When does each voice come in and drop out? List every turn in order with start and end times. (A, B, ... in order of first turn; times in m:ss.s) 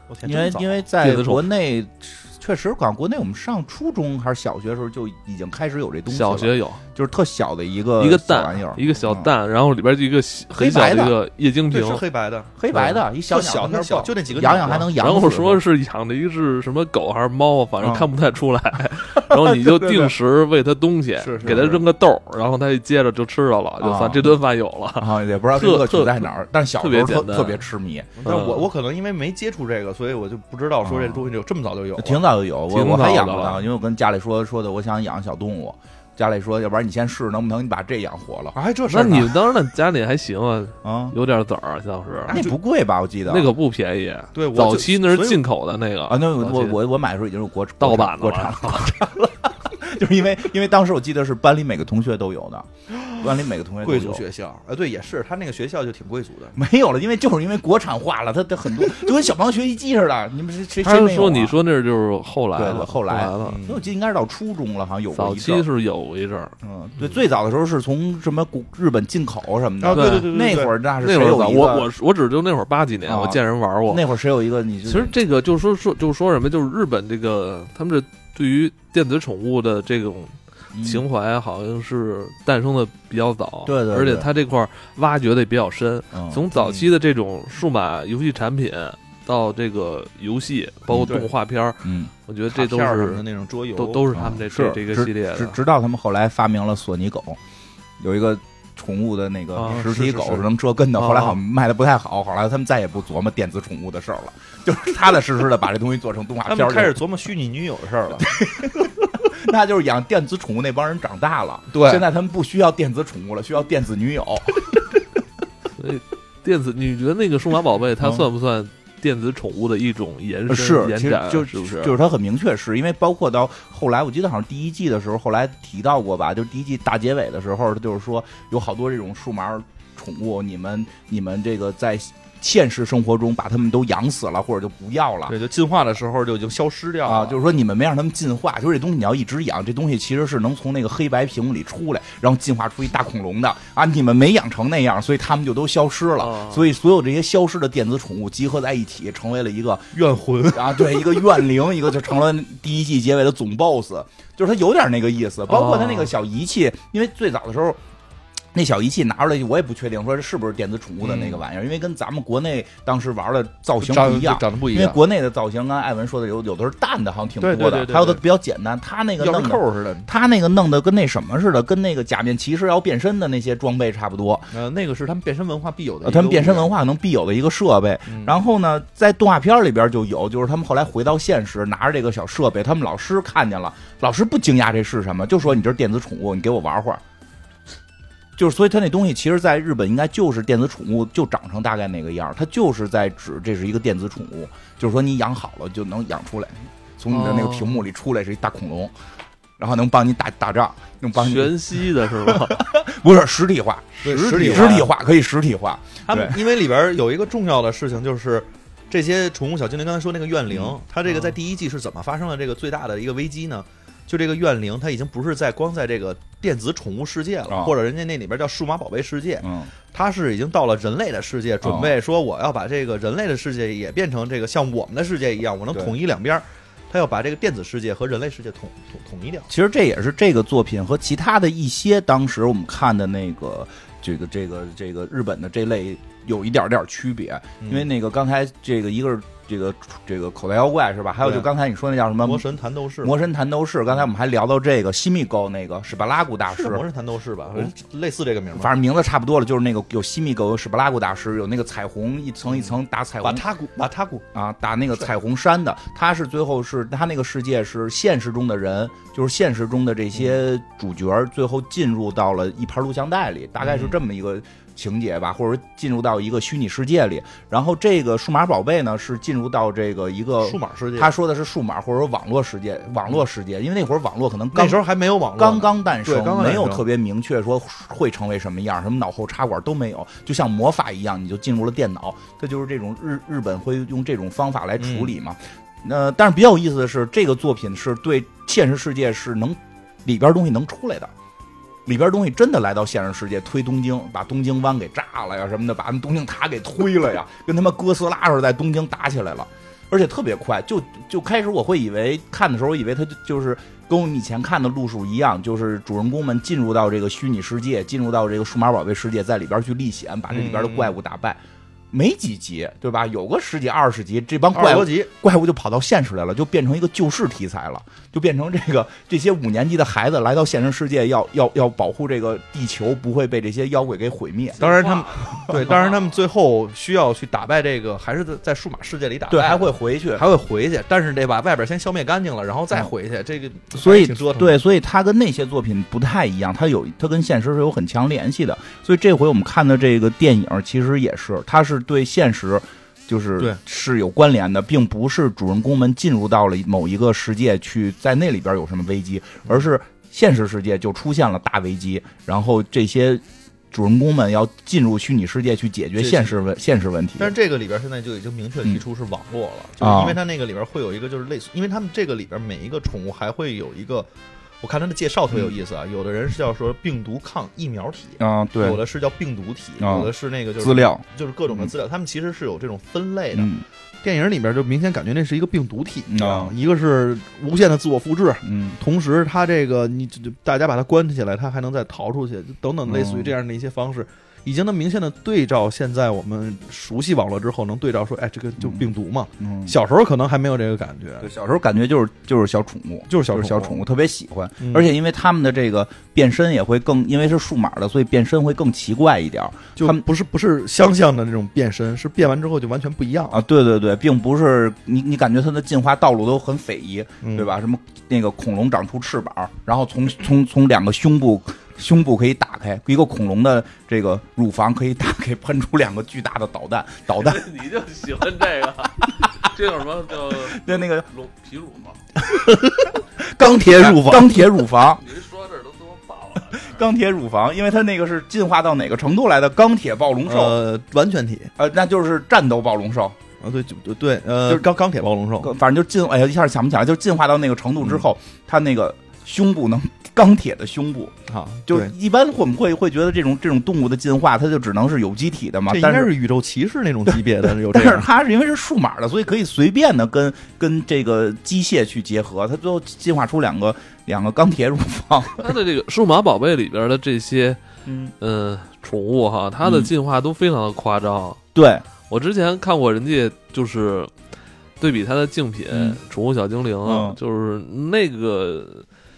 0:00.1-0:00.8 A
0:00.2-0:09.3 B
0:01.0-0:01.4 C
0:06.1-0:06.8 C
0:08.0-0:12.0 C
0:10.5-0:11.2 B
0:11.7-0:14.9 A
0:12.6-0:15.6 B
0:14.9-0:27.6 C
0:17.8-0:18.1 B
0:19.3-0:20.1 B
0:21.2-0:21.8 A
0:21.4-0:21.8 B
0:23.8-0:24.3 B
0:25.0-0:28.2 B
0:28.2-0:32.3 A
0:28.2-0:28.7 C
0:30.8-0:31.2 B
0:32.0-0:38.6 B
0:32.7-0:33.6 C
0:38.5-0:39.3 A
0:38.9-0:42.4 C
0:40.8-0:41.1 B
0:42.3-0:42.6 A
0:42.3-0:43.5 B
0:43.3-0:46.8 C
0:44.3-0:45.4 A
0:46.1-0:54.2 B
0:47.8-0:49.0 C
0:52.9-0:56.6 A
0:56.6-1:01.6 B
1:00.8-1:03.6 C
1:02.6-1:05.7 B
1:03.4-1:03.8 A
1:05.1-1:06.5 C
1:06.6-1:11.9 B
1:09.8-1:10.7 A
1:09.9-1:14.0 C
1:13.0-1:15.1 B
1:14.8-1:33.2 C
1:20.7-1:21.0 B
1:23.6-1:24.3 B
1:26.1-1:26.4 B
1:26.6-1:26.9 A
1:30.9-1:31.3 B
1:31.8-1:32.1 B
1:32.5-1:34.1 A
1:33.7-1:35.6 C
1:34.1-1:37.4 B
1:38.0-1:47.0 B
1:39.6-1:40.5 A
1:41.0-1:41.4 C
1:46.4-1:48.3 A
1:48.2-1:54.7 B
1:51.7-1:52.1 A
1:55.8-2:02.0 C
1:58.0-1:58.2 B
2:00.5-2:15.4 B
2:15.3-2:17.4 A
2:17.0-2:29.9 B
2:26.2-2:26.7 C
2:29.9-2:31.4 A
2:30.5-2:37.8 B
2:35.5-2:36.1 C
2:38.5-2:54.5 B
2:41.0-2:41.4 A
2:43.8-2:45.0 A
2:47.4-2:48.2 A
2:49.2-2:50.1 A
2:54.5-2:56.7 A
2:56.0-3:07.0 B
2:58.1-2:58.4 A
3:08.4-3:18.9 B
3:17.1-3:17.8 C
3:19.6-3:26.4 B
3:21.1-3:22.7 C
3:24.0-3:24.9 C
3:24.0-3:24.9 A
3:26.1-3:49.5 A
3:30.5-3:30.8 B
3:31.1-3:31.3 C
3:37.5-3:37.8 B
3:39.4-3:39.7 B
3:41.6-3:41.9 B
3:49.5-4:02.4 B
3:57.6-3:57.9 A
4:01.2-4:01.5 A
4:02.2-4:03.2 A
4:03.0-4:06.8 B
4:06.5-4:08.7 A
4:08.5-4:13.4 B
4:12.5-4:14.2 A
4:14.3-4:34.8 B
4:23.6-4:24.0 A
4:30.4-4:31.1 A
4:34.5-4:36.8 A
4:35.4-4:51.1 B
4:44.8-4:45.1 A
4:51.8-5:24.6 B
5:10.3-5:11.0 A
5:14.5-5:15.1 A
5:24.6-5:26.0 C
5:24.6-5:34.6 A
5:29.3-5:30.2 B
5:33.7-5:57.3 B
5:56.0-5:56.4 A
5:57.2-6:04.1 A
5:59.8-6:00.2 B
6:04.6-6:31.3 A
6:08.2-6:08.8 B
6:09.8-6:11.7 B
6:13.3-6:13.6 B
6:16.1-6:16.5 B
6:18.4-6:18.8 B
6:22.9-6:23.3 B
6:29.4-6:29.7 B
6:31.2-6:40.0 B
6:33.1-6:33.8 A
6:34.6-6:34.9 A
6:39.8-6:43.4 A
6:43.3-6:57.5 B
6:47.2-6:47.5 A
6:57.2-7:02.0 C
7:00.3-7:01.1 B
7:02.2-7:04.5 A
7:03.2-7:05.0 B
7:05.0-7:06.8 C
7:06.5-7:10.6 B
7:10.2-7:11.5 A
7:11.6-7:13.2 B
7:13.4-7:15.5 A
7:15.4-7:21.2 B
7:21.3-7:21.9 A
7:21.7-7:26.1 B
7:25.7-7:28.1 A
7:27.1-7:35.5 B
7:35.4-7:37.6 C
7:37.8-7:38.1 B
7:38.2-7:41.4 C
7:39.6-7:39.9 B
7:41.5-7:41.8 B
7:42.1-7:44.1 C
7:44.8-7:48.8 C
7:45.7-7:46.0 B
7:46.8-7:47.2 B